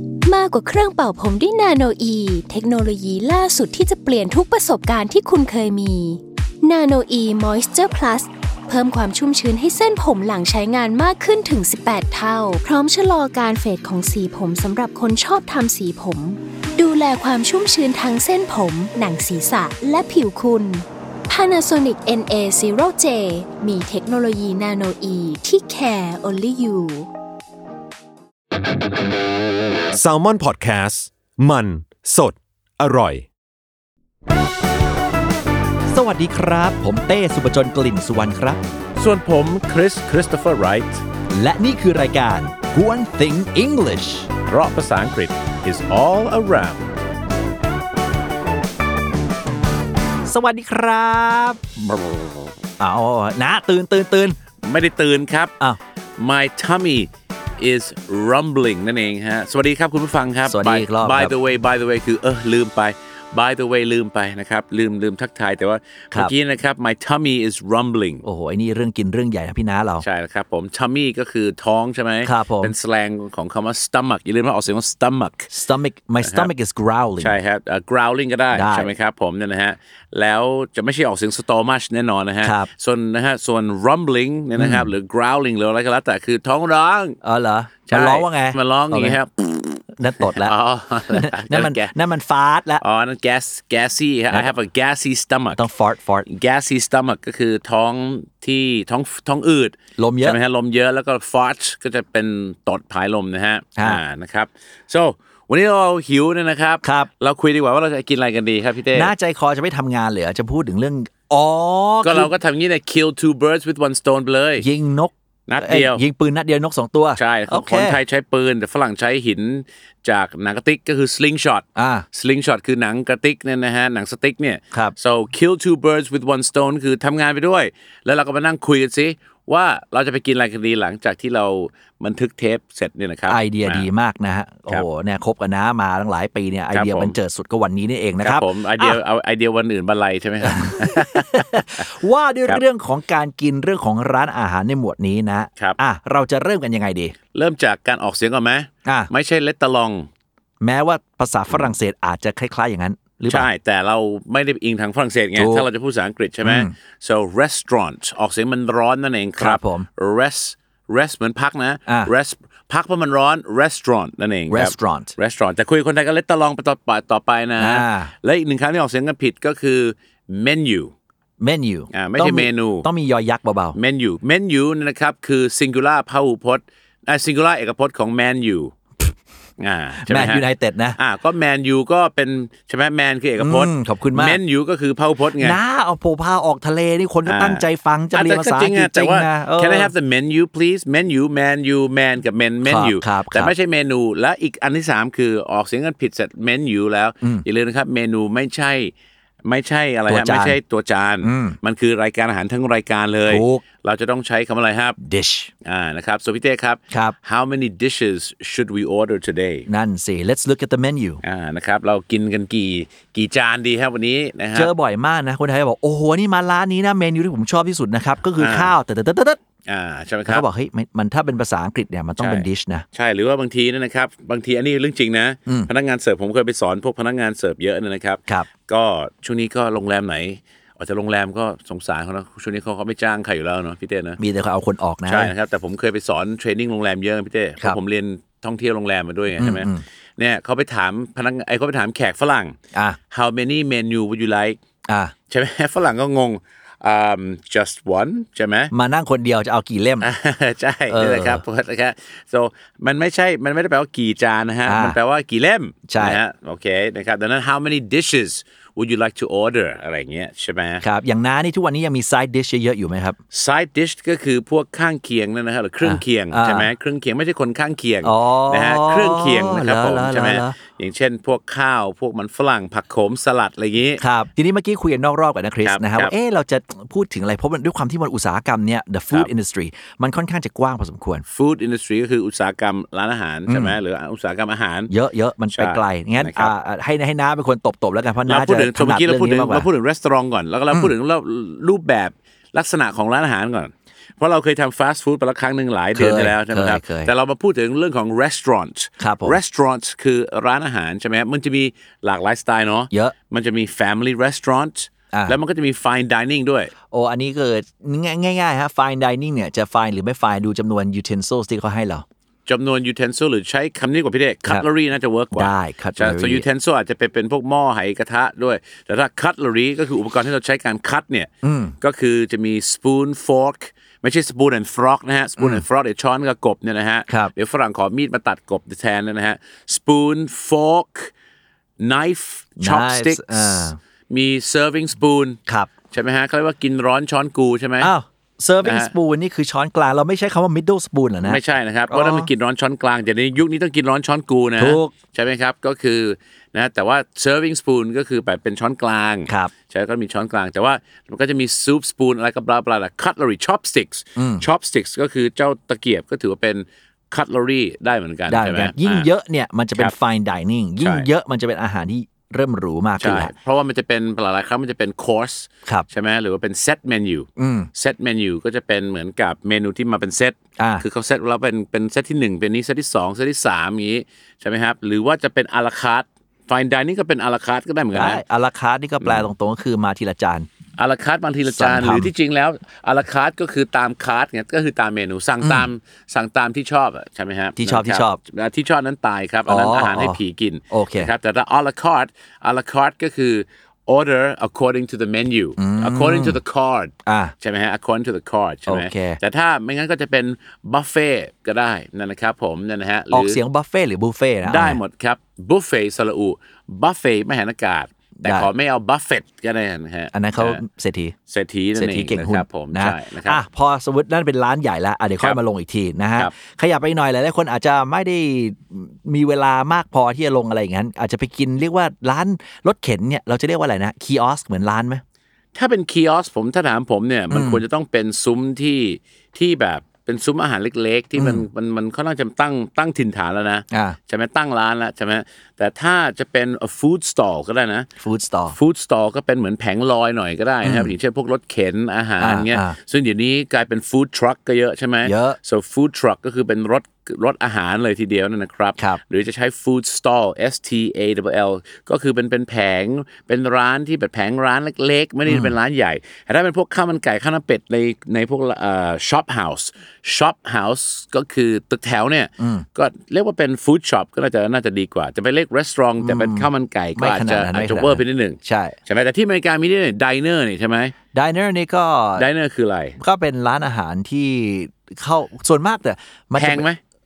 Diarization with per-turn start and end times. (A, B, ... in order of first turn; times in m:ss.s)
0:00.2-0:27.1 A
0:29.9-0:33.3 B
0:35.9-0:38.6 C
0:39.0-0:41.0 D
0:41.3-0:44.3 C
0:44.4-0:47.0 D
0:50.2-0:51.6 C
0:51.8-0:52.5 D
0:52.8-0:54.4 C
0:54.6-0:55.5 D
0:56.2-1:08.2 D
1:00.5-1:01.3 C
1:08.2-1:10.0 C
1:10.0-1:15.5 D
1:12.2-1:12.7 C
1:15.5-1:17.3 C
1:16.2-1:16.5 D
1:17.2-1:27.2 D
1:18.5-1:18.9 C
1:22.4-1:22.7 C
1:24.6-1:24.9 C
1:27.2-1:29.2 C
1:27.9-1:31.9 D
1:30.0-1:30.5 C
1:31.1-1:32.8 C
1:32.8-1:35.6 D
1:35.5-1:36.2 C
1:36.2-1:49.1 D
1:40.0-1:40.4 C
1:46.8-1:47.1 C
1:48.9-1:52.3 C
1:52.0-1:54.7 D
1:54.6-1:58.0 C
1:55.5-1:56.0 D
1:57.2-2:13.9 D
2:01.7-2:02.0 C
2:13.3-2:19.0 C
2:16.7-2:17.1 D
2:18.2-2:21.8 D
2:20.4-2:27.1 C
2:27.3-2:30.1 D
2:28.8-2:29.1 C
2:30.6-2:33.5 C
2:33.3-2:50.9 D
2:35.4-2:35.6 C
2:36.4-2:36.7 C
2:39.4-2:39.8 C
2:44.5-2:45.1 C
2:47.6-2:48.1 C
2:51.4-2:53.8 C
2:51.9-2:52.9 D
2:53.7-2:58.7 D
2:59.6-3:00.4 D
3:00.0-3:01.0 C
3:01.0-3:05.6 D
3:03.4-3:04.4 C
3:05.4-3:09.9 C
3:07.2-3:18.9 D
3:12.6-3:13.5 C
3:19.4-3:25.0 D
3:20.1-3:20.6 C
3:21.2-3:21.6 C
3:23.3-3:23.6 C
3:25.0-3:25.5 C
3:25.6-3:29.7 D
3:26.9-3:27.1 C
3:29.7-3:31.2 C
3:31.2-3:34.7 D
3:34.5-3:39.4 C
3:38.4-3:38.7 D
3:39.7-3:40.4 D
3:40.3-3:42.8 C
3:42.2-3:54.2 D
3:54.2-3:55.3 C
3:55.0-4:02.6 D
3:59.4-3:59.8 C
4:02.7-4:03.0 C
4:03.1-4:04.6 D
4:04.9-4:05.1 C
4:05.3-4:08.7 D
4:08.7-4:10.1 C
4:10.0-4:20.8 D
4:10.9-4:11.4 C
4:14.6-4:15.0 C
4:15.9-4:16.2 C
4:20.8-4:23.2 C
4:23.3-4:34.0 D
4:25.8-4:26.7 C
4:28.0-4:30.5 C
4:34.0-4:41.2 C
4:35.6-4:36.1 D
4:41.3-4:44.9 D
4:43.5-4:43.8 C
4:44.9-4:49.6 C
4:45.5-4:46.5 D
4:48.3-5:06.7 D
4:55.9-4:57.1 C
4:59.0-4:59.4 C
5:06.9-5:12.0 C
5:12.4-5:31.1 D
5:15.3-5:16.4 C
5:21.4-5:21.7 C
5:25.4-5:25.6 C
5:31.8-5:35.4 D
5:32.6-5:33.8 C
5:35.5-5:35.7 C
5:35.9-5:37.9 D
5:37.8-5:42.3 C
5:38.6-5:38.9 D
5:41.2-5:59.1 D
5:44.6-5:44.9 C
5:49.3-5:49.5 C
5:54.2-5:54.4 C
5:58.3-6:03.3 C
6:00.8-6:01.1 D
6:03.0-6:18.2 D
6:07.4-6:07.7 C
6:10.6-6:10.8 C
6:17.9-6:20.5 C
6:20.8-6:43.4 D
6:21.5-6:22.1 C
6:25.4-6:25.7 C
6:27.6-6:28.2 C
6:29.5-6:30.2 C
6:30.7-6:31.1 C
6:35.6-6:36.4 C
6:37.0-6:37.3 C
6:38.7-6:39.2 C
6:43.1-6:44.8 C
6:44.4-6:50.6 D
6:48.2-6:48.5 C
6:50.1-6:51.1 C
6:51.3-6:53.4 D
6:51.7-7:05.0 C
7:05.5-7:17.9 D
7:07.3-7:07.6 C
7:11.2-7:11.4 C
7:13.7-7:14.0 C
7:18.0-7:18.6 C
7:18.5-7:50.9 D
7:20.6-7:20.9 C
7:22.2-7:22.8 C
7:25.0-7:25.4 C
7:35.3-7:35.5 C
7:42.4-7:42.6 C
7:46.0-7:48.8 C
7:51.1-7:52.2 C
7:52.2-7:53.0 D
7:53.0-7:56.6 C
7:56.4-7:56.8 D